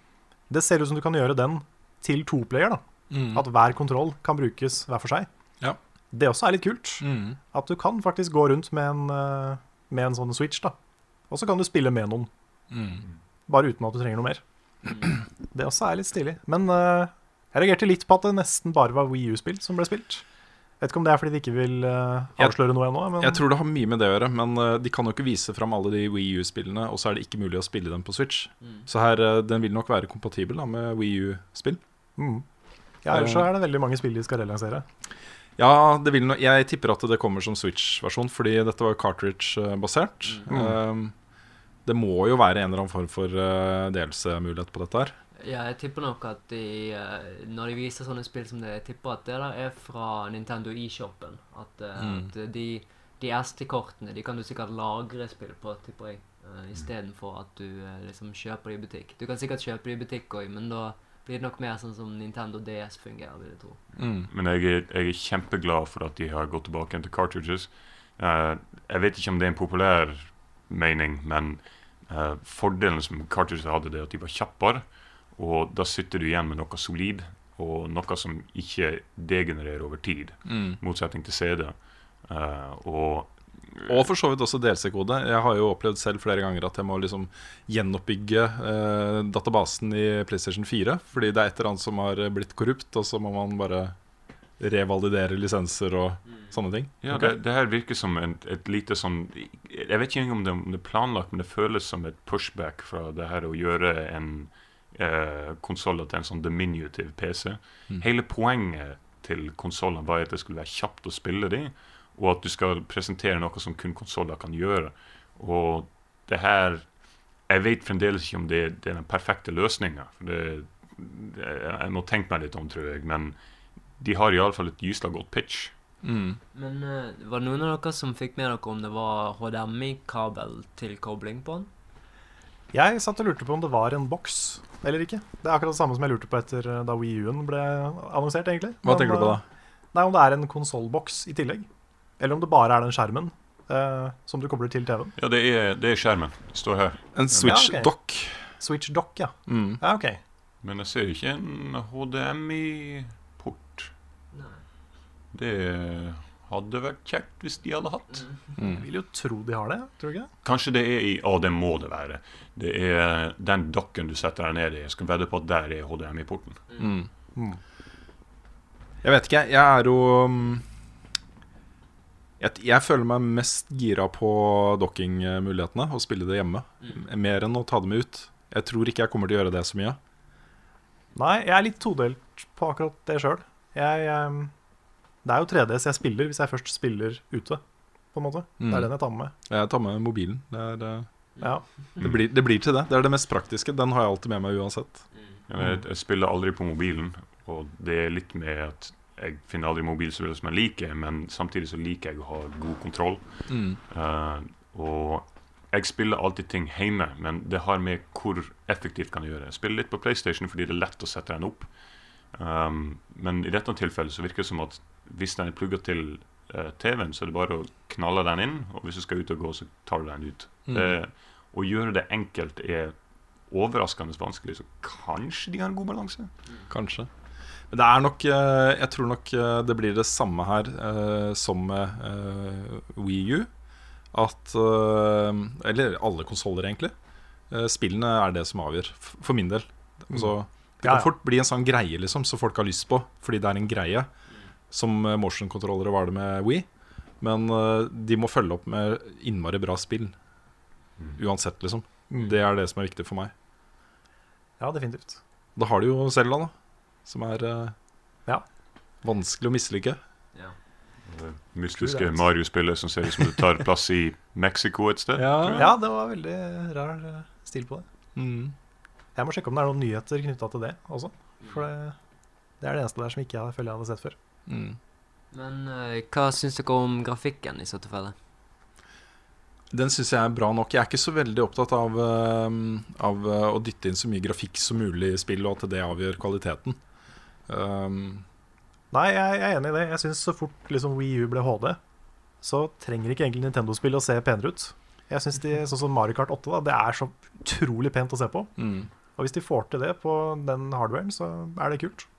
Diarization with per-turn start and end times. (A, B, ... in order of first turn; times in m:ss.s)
0:00.5-0:05.3 A
0:03.1-0:03.5 B
0:06.1-0:10.8 A
0:07.0-0:07.4 B
0:11.3-0:12.3 A
0:12.7-0:13.0 B
0:13.5-0:14.4 A
0:15.5-0:20.2 A
0:20.8-0:23.4 A
0:23.2-0:31.8 B
0:28.6-0:28.8 C
0:32.2-0:32.4 A
0:33.0-0:34.8 A
0:33.1-0:33.5 B
0:35.6-0:41.1 B
0:40.5-0:40.8 A
0:41.8-0:45.2 B
0:45.4-1:03.8 C
0:52.0-0:52.3 B
1:04.0-1:04.3 B
1:04.3-1:23.9 D
1:20.4-1:20.8 B
1:23.9-1:33.9 B
1:34.6-1:37.4 B
1:36.3-1:36.5 C
1:37.0-1:56.9 D
1:57.4-2:03.4 D
2:04.0-2:05.7 D
2:06.0-2:06.4 B
2:06.5-2:11.7 C
2:12.7-2:21.7 A
2:18.8-2:19.4 B
2:22.2-2:25.1 A
2:25.2-2:27.5 D
2:27.1-2:28.4 B
2:27.3-2:27.9 A
2:28.5-2:30.2 A
2:29.5-2:29.8 B
2:30.6-2:33.9 D
2:34.3-2:34.6 C
2:35.3-2:38.2 D
2:38.1-2:38.4 C
2:38.6-2:38.8 B
2:38.7-2:40.3 A
2:40.4-2:46.6 D
2:46.7-2:46.9 C
2:46.8-2:47.1 B
2:47.3-2:47.6 A
2:49.0-2:50.6 B
2:52.4-3:00.0 B
3:01.1-3:04.5 A
3:05.2-3:07.6 A
3:08.1-3:09.3 A
3:08.6-3:08.9 B
3:09.4-3:11.1 B
3:12.0-3:15.0 B
3:15.1-3:15.4 C
3:15.5-3:31.7 D
3:23.5-3:23.8 B
3:32.3-3:42.9 D
3:40.7-3:41.0 B
3:43.5-3:46.3 D
3:46.7-3:47.1 B
3:47.7-3:53.5 B
3:54.1-3:56.9 B
3:57.5-4:04.1 B
4:00.1-4:01.1 A
4:04.7-4:06.7 B
4:07.2-4:10.1 B
4:11.2-4:13.3 B
4:14.6-4:15.2 A
4:15.6-4:16.5 B
4:17.0-4:17.7 B
4:19.0-4:20.0 B
4:21.0-4:25.7 D
4:21.8-4:22.2 A
4:25.1-4:25.7 B
4:25.5-4:27.8 A
4:28.1-4:28.5 B
4:29.2-4:31.9 A
4:31.4-4:31.6 C
4:32.6-4:34.2 A
4:34.5-4:34.8 B
4:35.3-4:38.1 C
4:39.7-4:46.8 B
4:47.5-4:48.2 B
4:48.9-4:51.8 A
4:52.4-4:58.5 A
4:58.6-4:58.9 B
4:59.2-5:02.1 A